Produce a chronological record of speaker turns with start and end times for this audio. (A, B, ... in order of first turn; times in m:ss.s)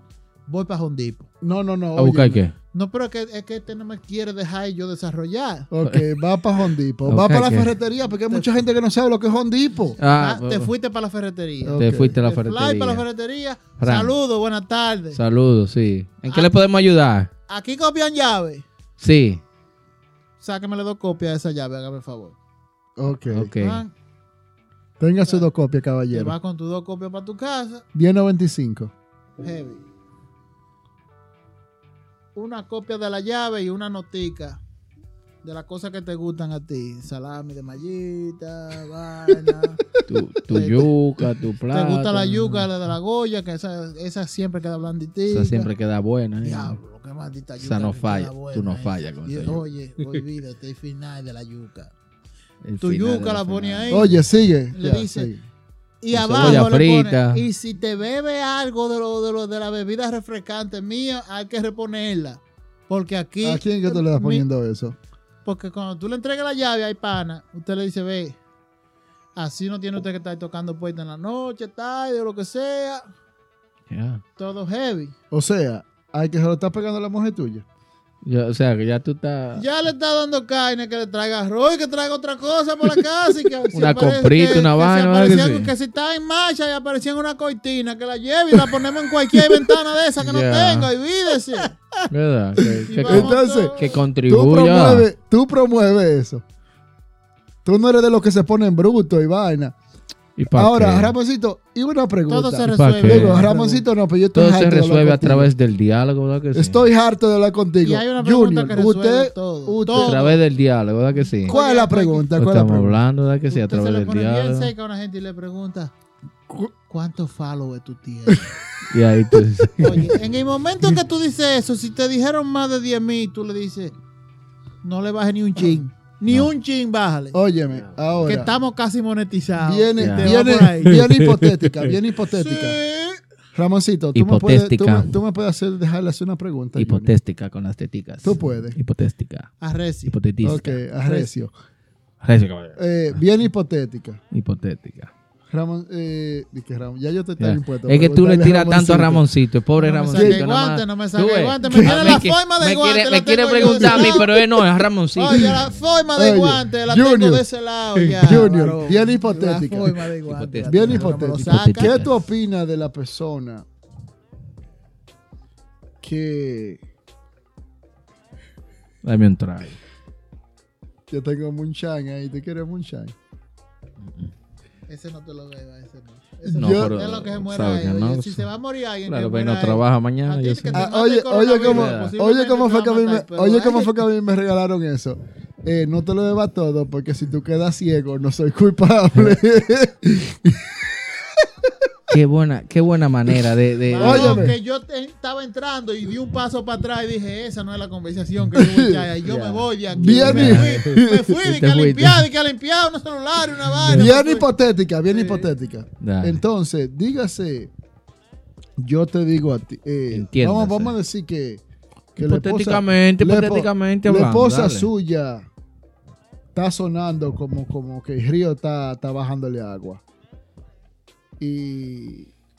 0:00.5-0:01.3 A
0:01.4-0:02.4 B
0:02.0-0:02.5 C
0:02.7-0:05.7 A
0:05.7-0:10.0 B
0:07.1-0:07.7 C
0:10.0-0:10.7 C
0:10.0-0:15.2 A
0:11.6-0:12.2 B
0:11.8-0:13.0 C
0:13.8-0:14.1 C
0:15.1-0:17.3 C
0:17.5-0:18.6 A
0:19.0-0:19.4 C
0:20.4-0:22.4 A
0:23.0-0:23.5 B
0:23.3-0:23.8 C
0:23.6-0:23.9 A
0:25.0-0:26.4 B
0:25.2-0:25.4 A
0:26.1-0:27.8 A
0:27.9-0:28.9 B
0:29.4-0:29.8 A
0:32.3-0:34.6 A
0:35.4-0:39.8 A
0:39.3-0:40.0 B
0:40.1-0:42.7 C
0:40.5-0:40.9 A
0:41.7-0:45.7 A
0:45.3-0:46.8 C
0:46.4-0:51.9 A
0:47.6-0:49.6 C
0:52.6-0:54.2 C
0:52.8-0:54.2 A
0:53.9-0:55.4 B
0:54.7-0:55.3 A
0:56.0-1:04.4 A
0:56.1-0:57.5 C
1:03.4-1:05.0 B
1:05.4-1:08.4 A
1:09.4-1:13.0 A
1:13.9-1:14.2 C
1:14.4-1:15.1 A
1:15.3-1:17.6 B
1:18.2-1:19.6 C
1:19.6-1:31.7 A
1:23.7-1:25.7 C
1:30.2-1:30.9 C
1:32.1-1:35.1 C
1:32.6-1:36.4 B
1:32.9-1:33.9 A
1:37.6-1:39.8 B
1:40.4-1:41.1 C
1:40.5-1:45.5 B
1:42.3-1:43.8 A
1:42.6-1:43.5 C
1:44.3-1:46.8 C
1:46.5-1:50.3 B
1:47.8-1:50.4 A
1:49.9-1:51.5 C
1:51.4-1:52.3 A
1:51.4-1:53.0 B
1:52.4-1:54.7 C
1:53.5-1:55.9 A
1:56.9-1:58.5 A
1:58.9-2:00.0 C
1:59.8-2:03.9 A
2:04.8-2:07.4 A
2:07.3-2:08.5 B
2:07.7-2:08.0 C
2:08.2-2:11.0 A
2:09.6-2:12.8 B
2:10.0-2:11.9 C
2:12.3-2:13.2 A
2:13.5-2:17.1 B
2:14.1-2:15.1 C
2:16.8-2:19.5 C
2:18.2-2:18.8 B
2:19.6-2:20.1 A
2:20.1-2:20.8 C
2:20.4-2:21.5 B
2:22.2-2:22.8 C
2:22.8-2:24.2 B
2:24.3-2:25.1 C
2:25.5-2:29.2 B
2:27.4-2:35.6 C
2:29.8-2:34.3 A
2:30.1-2:30.4 B
2:31.6-2:32.2 B
2:33.6-2:34.4 B
2:35.2-2:42.0 A
2:35.3-2:35.6 B
2:36.2-2:37.4 B
2:38.2-2:40.0 B
2:40.3-2:42.1 C
2:40.6-2:43.6 B
2:46.0-2:46.8 B
2:49.0-2:49.8 C
2:51.1-2:53.1 B
2:54.0-2:54.3 C
2:54.9-3:04.0 A
2:56.4-2:56.9 B
2:56.5-2:58.5 C
2:59.0-3:00.9 C
3:00.7-3:11.9 B
3:01.6-3:02.1 C
3:12.1-3:14.5 C
3:13.9-3:24.5 A
3:14.0-3:14.6 B
3:18.5-3:19.1 B
3:19.2-3:22.3 C
3:19.9-3:21.3 B
3:23.8-3:24.1 C
3:23.9-3:27.7 B
3:25.1-3:25.5 A
3:26.0-3:26.4 C
3:28.8-3:31.6 B
3:30.1-3:30.9 C
3:32.2-3:34.9 C
3:32.2-3:35.5 B
3:36.5-3:40.0 B
3:41.4-3:42.3 B